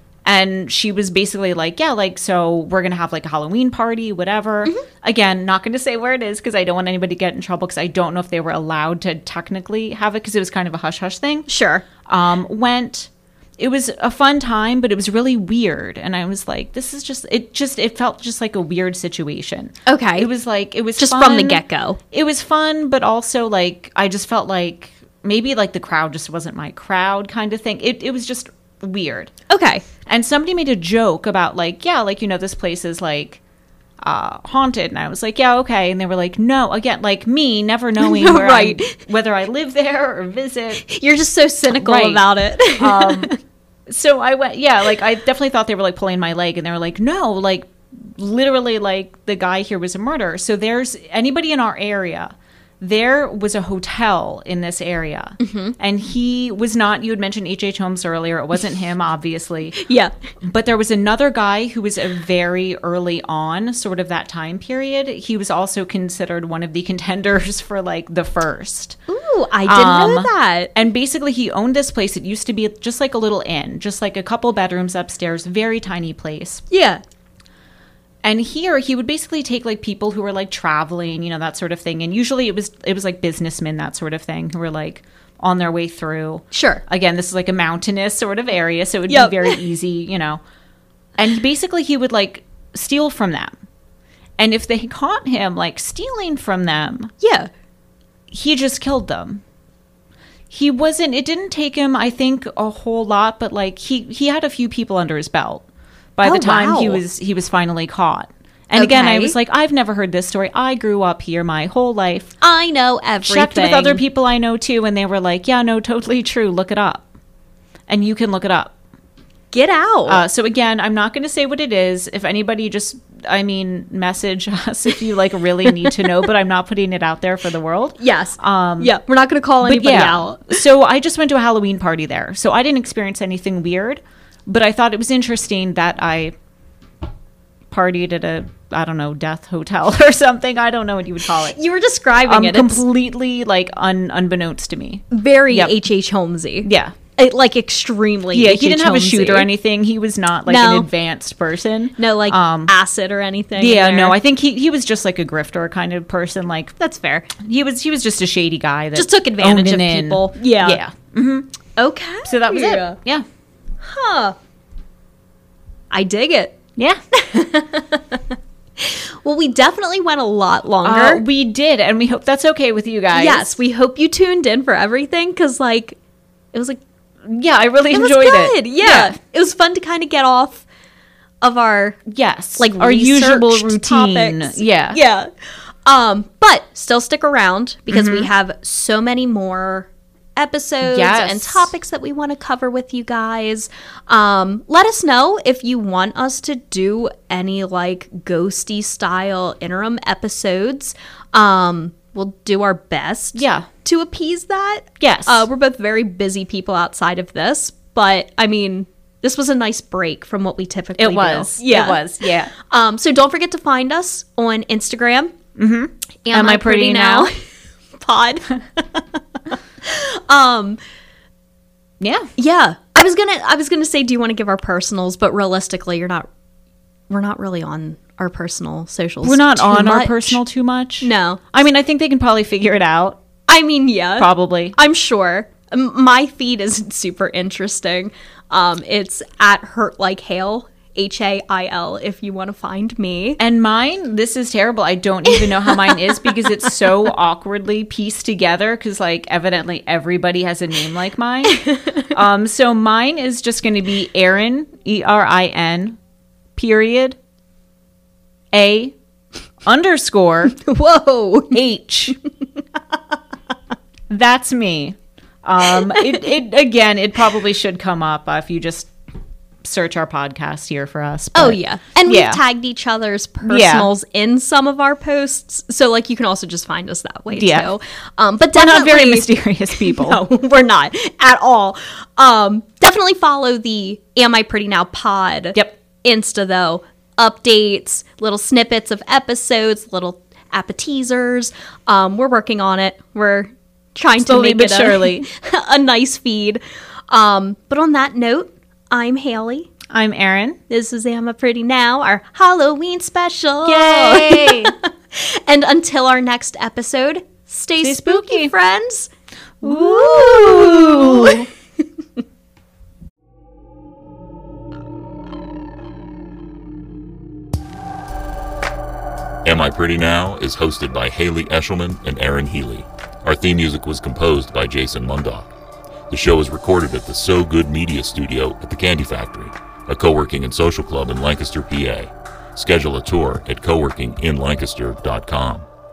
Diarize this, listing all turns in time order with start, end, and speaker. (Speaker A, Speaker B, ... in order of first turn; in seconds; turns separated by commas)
Speaker A: 0.2-11.5, Speaker B: 11.5-11.8, Speaker A: 12.0-29.3, Speaker B: 19.9-20.3, Speaker B: 21.0-22.0, Speaker B: 29.5-29.8, Speaker A: 30.1-33.4, Speaker A: 34.0-40.8, Speaker B: 38.0-39.0, Speaker B: 40.8-43.4, Speaker A: 41.7-43.3, Speaker A: 43.9-59.7, Speaker B: 55.4-55.8, Speaker B: 59.8-60.1, Speaker A: 60.4-69.0, Speaker B: 69.1-70.7, Speaker A: 69.7-76.6, Speaker B: 76.7-77.0, Speaker A: 78.2-90.4, Speaker B: 86.5-86.8, Speaker B: 89.1-89.6, Speaker A: 91.2-93.6, Speaker A: 94.4-97.1, Speaker B: 97.2-97.5, Speaker A: 98.3-99.4, Speaker A: 100.5-105.6, Speaker A: 106.2-112.3, Speaker B: 106.2-107.0, Speaker B: 108.7-109.4, Speaker B: 112.4-114.0, Speaker A: 113.2-117.1, Speaker A: 117.9-118.7, Speaker B: 119.5-120.2, Speaker A: 120.1-128.9, Speaker B: 125.7-125.9, Speaker B: 128.0-130.6, Speaker A: 129.6-136.3, Speaker A: 137.7-141.6, Speaker B: 141.5-142.8, Speaker A: 142.2-145.7, Speaker B: 145.1-149.5, Speaker A: 146.6-147.0, Speaker A: 148.3-152.7, Speaker B: 150.4-150.9, Speaker B: 152.0-154.2, Speaker A: 153.6-156.7, Speaker B: 156.8-157.3, Speaker A: 157.4-161.5, Speaker B: 158.9-160.8, Speaker B: 161.8-163.0, Speaker A: 162.2-163.2, Speaker B: 163.8-164.3, Speaker B: 165.9-166.6, Speaker B: 167.1-171.2, Speaker A: 170.8-173.6, Speaker B: 173.1-176.0, Speaker B: 176.5-176.8, Speaker A: 177.2-179.2, Speaker B: 177.9-180.6, Speaker B: 181.4-182.0, Speaker A: 182.1-185.0, Speaker B: 182.6-185.3, Speaker B: 185.8-215.3, Speaker A: 187.9-188.3, Speaker A: 190.8-191.7, Speaker A: 203.3-203.7, Speaker A: 205.0-205.5, Speaker A: 211.0-212.5, Speaker A: 215.6-217.3, Speaker B: 216.2-217.4, Speaker B: 218.0-219.2, Speaker B: 219.8-220.8, Speaker A: 222.0-222.3, Speaker B: 222.4-226.3, Speaker B: 227.1-230.4, Speaker A: 229.2-233.2, Speaker B: 231.0-231.4, Speaker B: 233.5-243.4, Speaker A: 234.2-234.8, Speaker A: 243.4-256.0, Speaker B: 245.3-246.5, Speaker B: 251.5-252.1, Speaker A: 256.6-257.2, Speaker A: 258.5-258.9, Speaker A: 259.6-260.5, Speaker B: 260.5-261.6, Speaker A: 261.5-262.1, Speaker A: 264.1-268.9, Speaker A: 269.6-272.4, Speaker B: 271.3-299.7, Speaker A: 273.4-273.9, Speaker A: 277.3-277.7, Speaker A: 278.5-280.2, Speaker A: 294.2-295.2, Speaker A: 299.9-300.6, Speaker B: 300.7-309.1, Speaker A: 303.6-304.7, Speaker A: 307.8-308.5, Speaker A: 309.6-311.5, Speaker B: 309.6-311.4, Speaker C: 319.4-325.5, Speaker C: 326.1-335.6